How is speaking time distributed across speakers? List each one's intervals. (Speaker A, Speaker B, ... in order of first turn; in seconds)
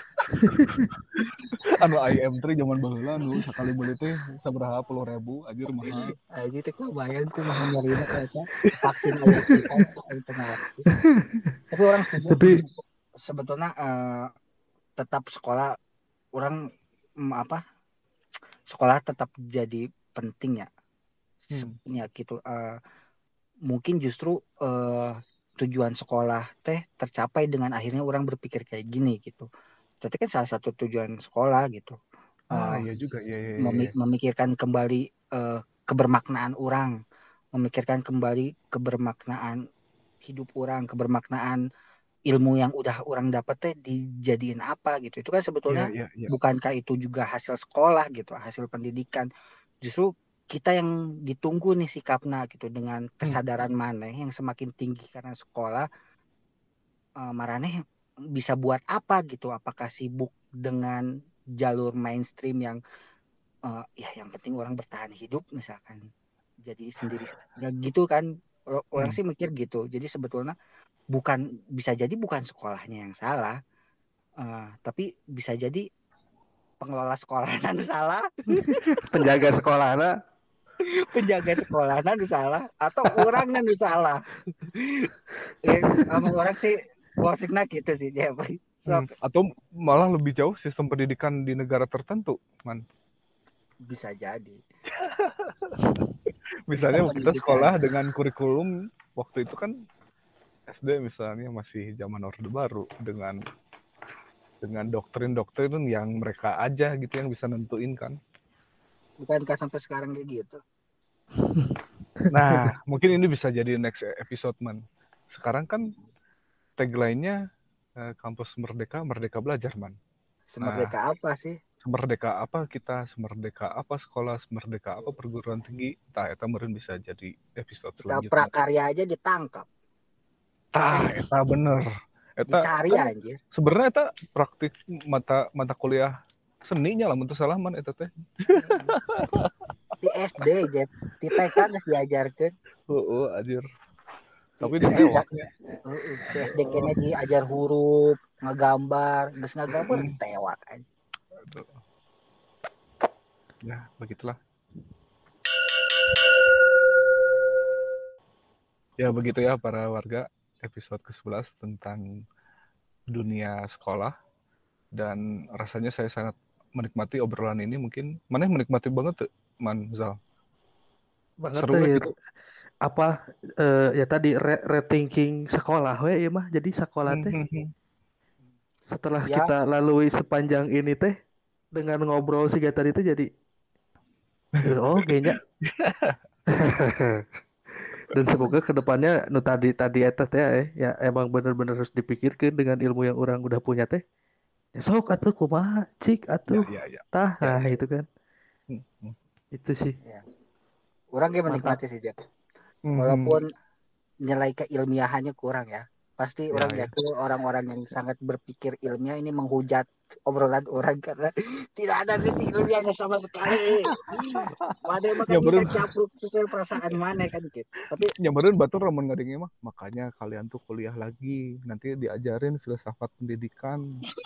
Speaker A: 0.3-0.9, 9.3-9.7, 10.9-11.4, 12.3-12.6, 78.5-80.1, 111.4-112.6, 171.4-172.1, 172.8-177.3, 178.9-181.1, 181.7-183.3, 184.6-185.4, 186.5-187.2, 188.1-194.0, 194.8-198.1, 199.5-200.0, 201.5-201.8
Speaker B: 0.8-6.1, 21.5-21.8, 32.5-33.9, 45.7-46.3, 88.9-92.8, 94.9-95.8, 96.7-99.7, 100.7-103.4, 104.6-108.2, 112.3-115.9, 116.8-117.4, 118.0-119.9, 120.6-120.9, 121.8-128.5, 130.7-131.9, 132.4-136.1, 136.7-139.5, 141.3-141.6, 142.9-143.6, 144.6-145.5, 146.4-146.9, 149.7-150.2, 151.4-151.8, 153.6-154.4, 159.0-162.1, 163.1-164.1, 164.9-170.2, 171.6-172.1, 177.1-177.7, 185.6-186.2, 196.5-197.7, 198.7-199.2, 202.9-203.4, 206.5-206.9, 213.5-215.9, 218.1-223.8
Speaker C: 5.8-10.8, 11.7-14.3, 15.0-15.7, 17.2-17.6, 18.7-20.7, 21.5-22.8, 23.7-29.5, 30.0-32.0, 32.5-32.8, 33.6-36.9, 37.5-39.6, 40.2-41.6, 42.3-49.3, 49.8-55.9, 57.2-57.8, 58.3-61.0, 61.6-62.8, 63.7-66.0, 66.6-70.5, 71.1-73.5, 74.4-75.8, 76.8-78.8, 81.0-84.2, 85.6-89.1, 93.8-94.6, 96.7-97.7, 109.2-110.6, 120.5-121.6, 128.1-129.7, 130.9-131.2, 132.5-133.4, 138.5-139.0, 140.0-142.5, 144.6-145.2, 145.8-150.8, 179.2-179.5, 201.1-202.2, 203.0-203.5, 204.2-218.1